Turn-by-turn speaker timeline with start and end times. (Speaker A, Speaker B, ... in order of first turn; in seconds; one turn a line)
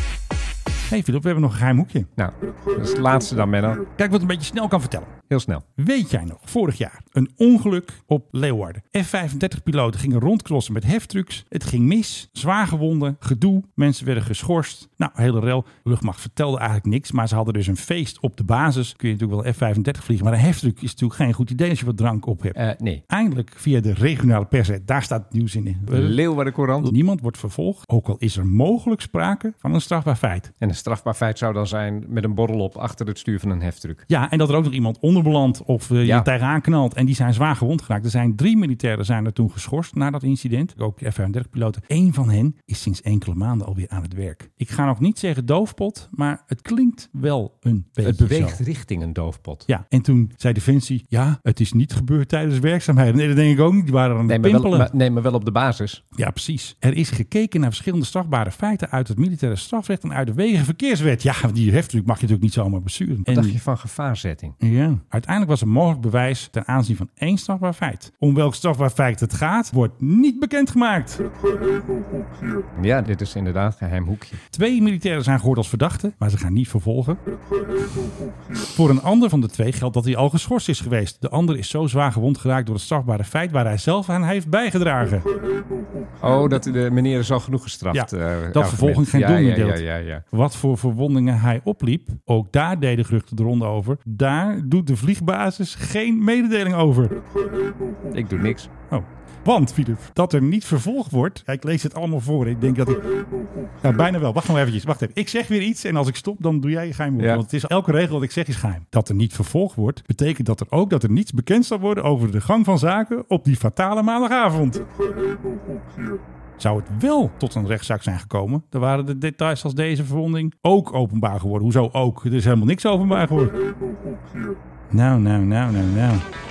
Speaker A: 0.9-2.1
Speaker B: 2.2-3.8
Speaker A: 3.9-5.1
Speaker B: 5.3-5.6
Speaker A: 5.8-22.6
Speaker B: 22.6-23.0
Speaker A: 23.1-26.2
Speaker B: 25.9-26.9
Speaker A: 26.8-30.5
Speaker B: 30.6-34.0
Speaker A: 34.1-48.6
Speaker B: 36.0-36.3
Speaker B: 48.0-49.7
Speaker A: 49.7-54.9
Speaker B: 54.3-56.0
Speaker A: 56.2-63.6
Speaker B: 63.3-64.6
Speaker A: 64.6-71.2
Speaker B: 72.8-74.4
Speaker A: 74.5-77.2
Speaker A: 78.6-85.2
Speaker B: 86.2-90.2
Speaker A: 87.9-97.2
Speaker B: 98.1-98.7
Speaker A: 98.9-103.0
Speaker A: 103.8-114.8
Speaker B: 107.2-107.4
Speaker A: 116.6-123.5
Speaker A: 124.9-126.2